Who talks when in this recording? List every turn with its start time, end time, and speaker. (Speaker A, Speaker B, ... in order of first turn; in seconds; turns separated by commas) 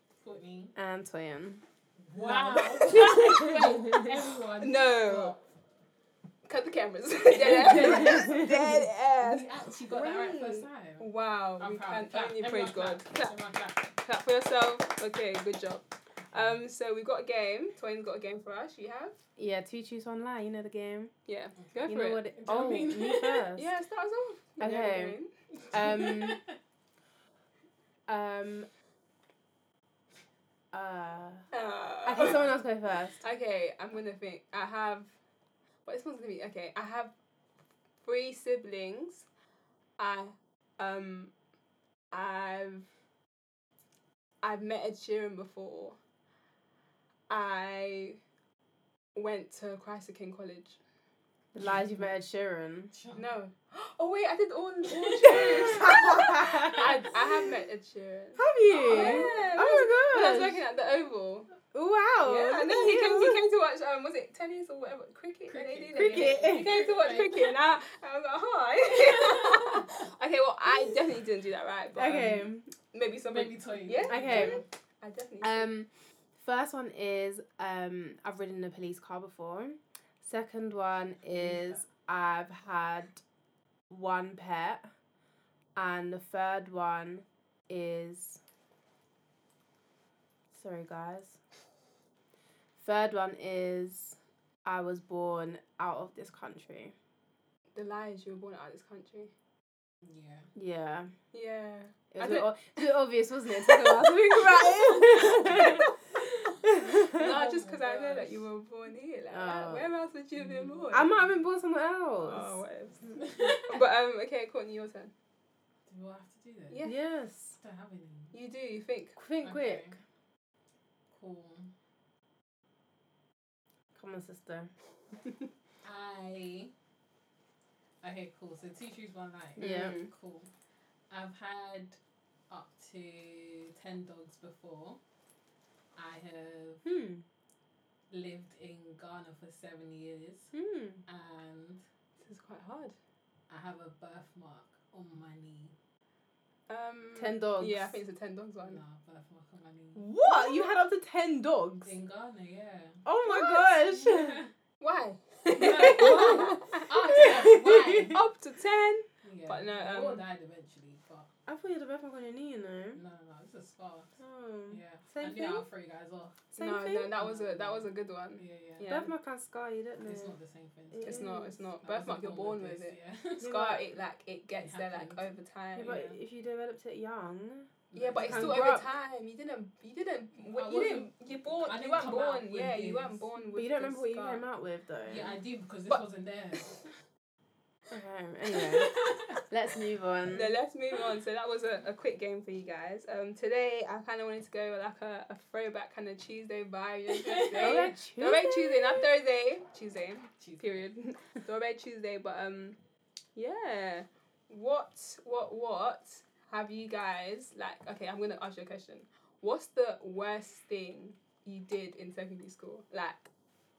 Speaker A: 0.2-0.7, Speaker B: 0.7-1.6, Speaker A: 2.1-5.4, Speaker C: 2.2-3.7, Speaker B: 2.2-4.1, Speaker C: 4.6-5.3, Speaker C: 6.5-13.3, Speaker A: 7.3-11.1, Speaker B: 7.7-8.7, Speaker A: 11.6-13.9, Speaker C: 13.9-19.2, Speaker B: 19.4-21.1, Speaker C: 21.3-22.2, Speaker B: 21.9-23.7, Speaker A: 22.3-23.4, Speaker C: 23.6-25.3, Speaker B: 24.6-25.1, Speaker A: 25.6-26.6, Speaker B: 25.7-26.4, Speaker B: 28.1-28.7, Speaker B: 30.7-31.4, Speaker C: 31.5-32.5, Speaker B: 32.0-33.2, Speaker C: 33.2-35.1, Speaker C: 35.8-37.1, Speaker C: 38.0-39.2, Speaker C: 40.0-41.3, Speaker C: 42.1-42.9, Speaker C: 44.4-46.0, Speaker C: 47.3-48.2, Speaker C: 49.1-50.8, Speaker B: 51.5-52.9, Speaker A: 52.9-53.3, Speaker C: 53.1-61.5, Speaker A: 55.0-56.9, Speaker B: 55.3-57.0, Speaker B: 58.4-60.6, Speaker A: 58.7-59.5, Speaker B: 61.7-63.4, Speaker C: 62.2-75.7, Speaker A: 65.5-67.5, Speaker B: 66.0-66.8, Speaker A: 68.8-70.0, Speaker B: 71.9-72.7, Speaker A: 73.3-74.6, Speaker B: 74.1-74.6, Speaker B: 75.4-83.2, Speaker A: 81.3-81.8, Speaker B: 83.9-84.9, Speaker B: 85.8-88.4, Speaker B: 90.5-91.4, Speaker B: 92.8-96.9, Speaker C: 97.7-99.3, Speaker A: 100.0-100.5, Speaker B: 100.5-101.1, Speaker C: 101.3-102.5, Speaker B: 102.1-105.9, Speaker C: 103.7-104.0, Speaker C: 104.6-105.9, Speaker B: 106.6-107.3, Speaker A: 107.0-108.4, Speaker C: 107.1-111.1, Speaker B: 109.3-109.9, Speaker A: 110.4-111.1, Speaker B: 110.9-112.6, Speaker C: 112.2-115.1, Speaker A: 113.1-113.8, Speaker A: 115.9-116.8, Speaker C: 116.7-117.0, Speaker B: 116.8-117.5, Speaker A: 117.6-118.3, Speaker C: 118.3-119.2, Speaker B: 119.2-119.9, Speaker A: 119.4-120.0, Speaker A: 121.1-121.7, Speaker B: 123.9-124.7, Speaker A: 125.8-126.7, Speaker A: 128.0-130.5, Speaker C: 129.6-130.1, Speaker B: 129.6-129.9, Speaker A: 131.1-132.0, Speaker A: 132.5-135.0, Speaker A: 135.9-136.8, Speaker B: 136.8-137.2, Speaker A: 138.1-140.5, Speaker B: 140.5-141.0, Speaker A: 141.1-141.8, Speaker C: 142.2-142.9, Speaker A: 143.5-145.7, Speaker C: 146.7-148.8, Speaker B: 147.2-148.0, Speaker A: 148.6-150.0, Speaker B: 149.9-151.9, Speaker C: 150.2-150.7, Speaker A: 151.8-154.5, Speaker B: 153.0-154.4, Speaker C: 154.8-157.3, Speaker A: 155.5-158.2, Speaker B: 155.8-158.2, Speaker C: 158.1-160.2, Speaker A: 159.2-161.3, Speaker B: 161.5-163.0, Speaker A: 162.9-164.1, Speaker B: 164.2-165.7, Speaker A: 164.7-166.4, Speaker B: 166.5-167.1, Speaker C: 166.6-169.1, Speaker A: 167.2-168.9, Speaker B: 168.9-170.3, Speaker A: 170.0-173.6, Speaker B: 170.9-171.5, Speaker C: 171.0-176.0, Speaker B: 173.4-173.8, Speaker A: 174.6-175.3, Speaker B: 175.8-178.8, Speaker A: 175.9-176.1, Speaker A: 177.9-178.6, Speaker C: 177.9-184.4, Speaker A: 180.5-183.2, Speaker B: 183.5-185.3, Speaker A: 185.1-186.8, Speaker B: 187.9-190.5, Speaker A: 188.5-189.4, Speaker C: 190.3-202.8, Speaker A: 197.1-197.9, Speaker B: 197.6-198.8, Speaker A: 200.3-200.9, Speaker C: 203.3-213.3